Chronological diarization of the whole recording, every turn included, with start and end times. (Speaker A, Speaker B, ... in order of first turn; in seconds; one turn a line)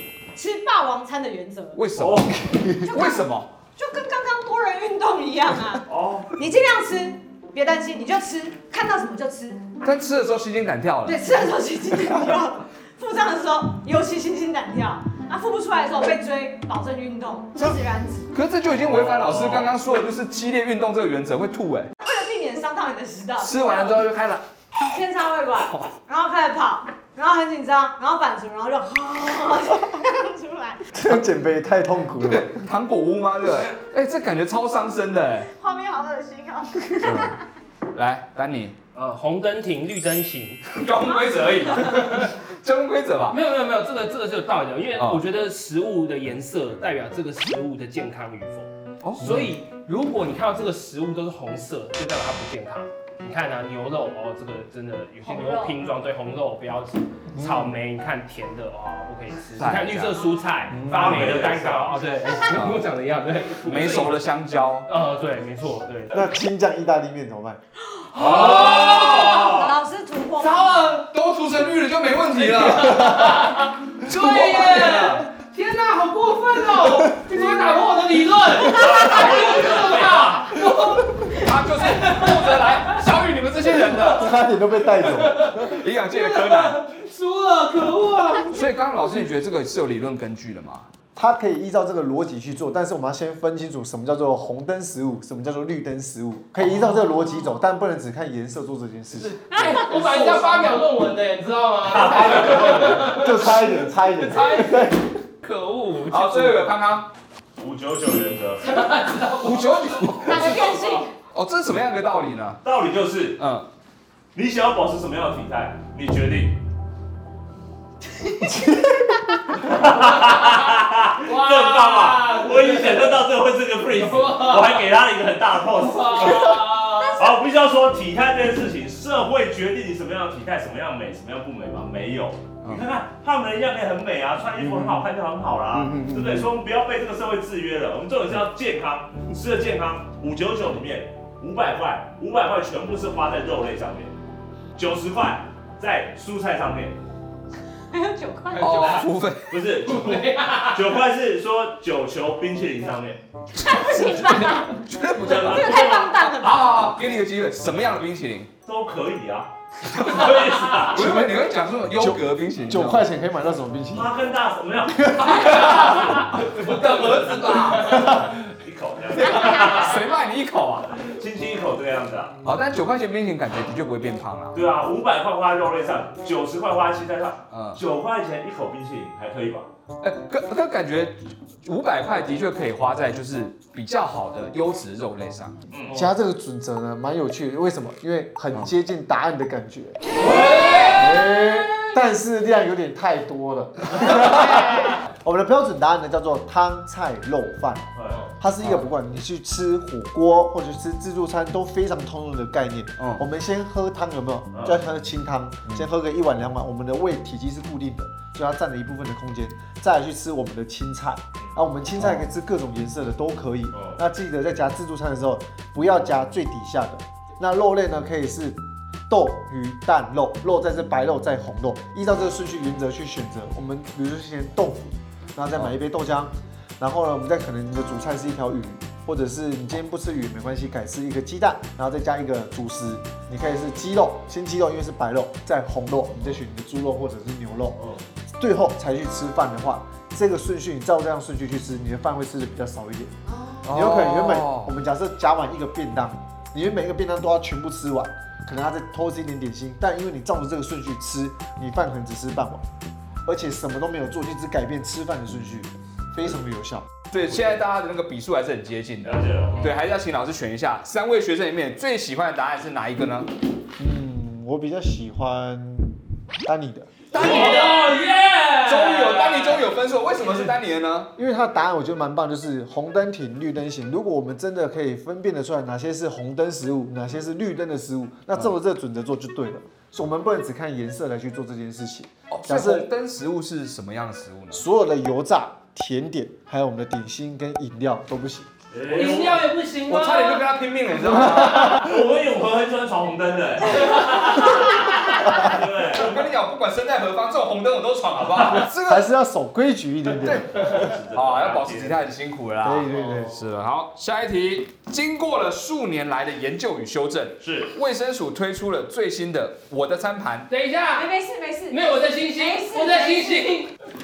Speaker A: 0.3-1.8
Speaker B: 1.8-3.5
Speaker C: 2.0-2.6
Speaker D: 2.4-2.9
Speaker A: 2.8-5.8
Speaker C: 5.9-6.3
Speaker A: 6.4-9.7
Speaker B: 9.8-11.2
Speaker A: 11.1-18.3
Speaker B: 18.3-21.9
Speaker C: 18.9-19.7
Speaker A: 22.0-24.0
Speaker B: 23.4-24.4
Speaker A: 24.9-30.9
Speaker D: 30.9-32.7
Speaker B: 32.2-35.5
Speaker A: 35.5-37.4
Speaker B: 37.0-37.4
Speaker B: 37.9-38.8
Speaker E: 39.0-40.8
Speaker B: 40.7-43.4
Speaker E: 41.9-42.3
Speaker E: 43.3-64.2
Speaker B: 45.0-45.2
Speaker B: 49.0-49.5
Speaker A: 55.2-55.8
Speaker D: 57.4-57.7
Speaker B: 59.6-60.2
Speaker D: 60.7-61.2
Speaker C: 60.9-62.0
Speaker B: 62.5-62.8
Speaker B: 63.6-64.9
Speaker E: 64.9-66.2
Speaker D: 66.1-67.6
Speaker E: 68.1-69.5
Speaker B: 68.2-69.5
Speaker C: 68.2-69.5
Speaker A: 68.2-71.0
Speaker E: 70.4-71.1
Speaker B: 71.1-73.5
Speaker E: 72.4-82.6
Speaker B: 74.0-75.3
Speaker C: 78.6-80.6
Speaker B: 81.3-84.3
Speaker D: 84.1-85.8
Speaker E: 85.0-85.6
Speaker B: 85.6-86.8
Speaker E: 86.1-88.6
Speaker B: 88.5-90.9
Speaker D: 91.2-100.5
Speaker E: 99.5-103.5
Speaker A: 99.5-99.8
Speaker C: 101.8-103.2
Speaker D: 102.9-105.1
Speaker E: 104.2-106.7
Speaker B: 106.1-107.1
Speaker C: 107.6-108.7
Speaker E: 108.6-111.0
Speaker B: 109.4-110.7
Speaker A: 110.2-111.1
Speaker B: 111.3-112.6
Speaker C: 112.6-113.4
Speaker B: 113.4-113.7
Speaker C: 114.3-116.6
Speaker A: 118.3-118.6
Speaker C: 119.6-144.1
Speaker E: 121.2-123.0
Speaker E: 123.9-124.8
Speaker E: 125.8-127.2
Speaker A: 127.0-127.3
Speaker B: 134.7-134.9
Speaker B: 135.8-136.4
Speaker C: 144.8-147.0
Speaker A: 147.9-149.1
Speaker B: 148.5-149.5
Speaker C: 149.5-153.2
Speaker E: 149.8-150.9
Speaker A: 153.6-154.8
Speaker B: 153.9-158.5
Speaker C: 155.2-156.2
Speaker A: 155.3-157.0
Speaker C: 158.7-161.1
Speaker B: 160.0-163.1
Speaker D: 161.0-161.4
Speaker D: 161.9-164.1
Speaker C: 163.9-170.0
Speaker D: 165.2-165.9
Speaker B: 165.2-168.1
Speaker E: 165.4-166.5
Speaker E: 167.5-168.1
Speaker A: 169.2-170.0
Speaker B: 169.2-171.0
Speaker C: 171.1-172.4
Speaker B: 172.4-174.6
Speaker C: 174.5-179.7
Speaker B: 177.5-177.8
Speaker B: 180.0-185.7
Speaker C: 185.7-186.0
Speaker D: 185.9-190.2
Speaker E: 190.2-191.1
Speaker B: 190.3-190.8
Speaker D: 190.9-237.8
Speaker C: 197.9-198.3
Speaker B: 203.0-203.2
Speaker C: 204.5-204.8
Speaker C: 213.7-214.0
Speaker D: 238.4-243.1
Speaker A: 243.3-243.6
Speaker B: 243.6-244.7
Speaker D: 243.7-252.7
Speaker D: 253.2-256.9
Speaker B: 257.1-263.3
Speaker C: 259.1-259.7
Speaker D: 263.8-267.0
Speaker B: 267.1-267.9
Speaker E: 267.1-269.6
Speaker B: 268.5-271.1
Speaker D: 271.2-282.9
Speaker B: 282.3-284.6
Speaker D: 284.5-288.5
Speaker C: 288.7-289.5
Speaker E: 288.9-290.5
Speaker B: 289.9-291.9
Speaker E: 291.1-291.8
Speaker C: 291.6-296.2
Speaker E: 293.8-294.1
Speaker B: 295.9-299.1
Speaker C: 298.4-298.6
Speaker D: 298.9-300.7
Speaker B: 300.2-310.5
Speaker C: 300.2-302.0
Speaker D: 302.6-303.4
Speaker E: 302.9-303.4
Speaker C: 307.4-307.7
Speaker E: 310.5-311.1
Speaker A: 310.9-313.6
Speaker E: 311.7-313.7